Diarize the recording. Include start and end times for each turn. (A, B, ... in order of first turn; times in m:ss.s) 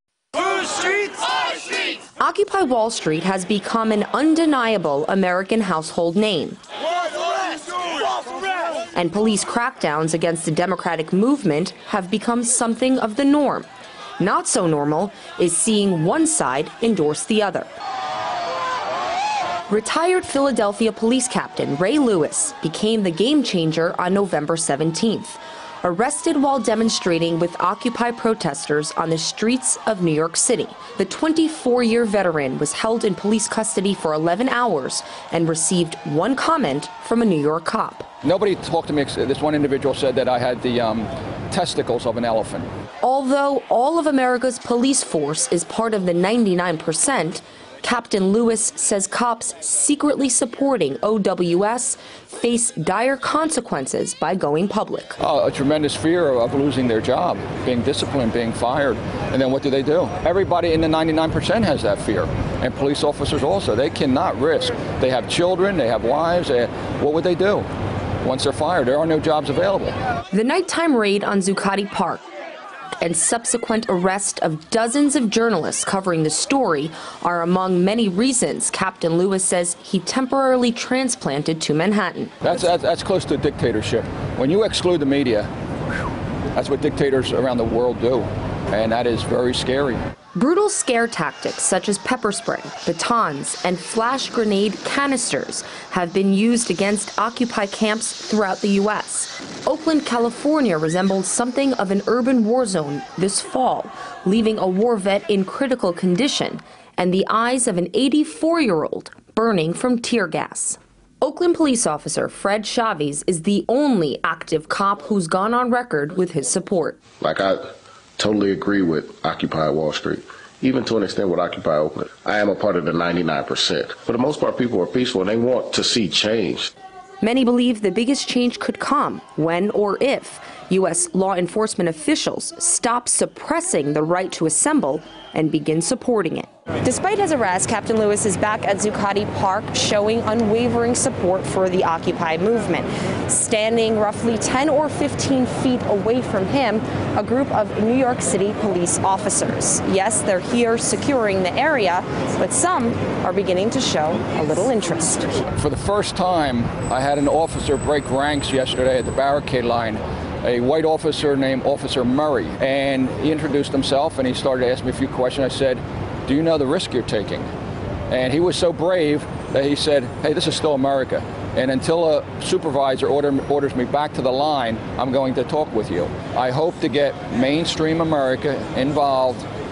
0:02.2-0:06.6 A
0:08.9-0:13.7 A
0:14.2-0:17.7 A
0:19.7-0:38.1 A
0:38.2-0:42.7 B
0:43.0-0:55.2 A
0:55.2-1:07.7 B
1:08.2-1:10.0 B
1:10.3-1:12.2 A
1:13.0-1:22.4 A
1:22.4-1:25.5 B
1:26.5-1:30.0 B
1:30.3-1:57.0 A
1:57.2-2:06.7 C
2:07.2-2:35.5 A
2:35.6-2:47.5 B
2:48.1-2:59.4 B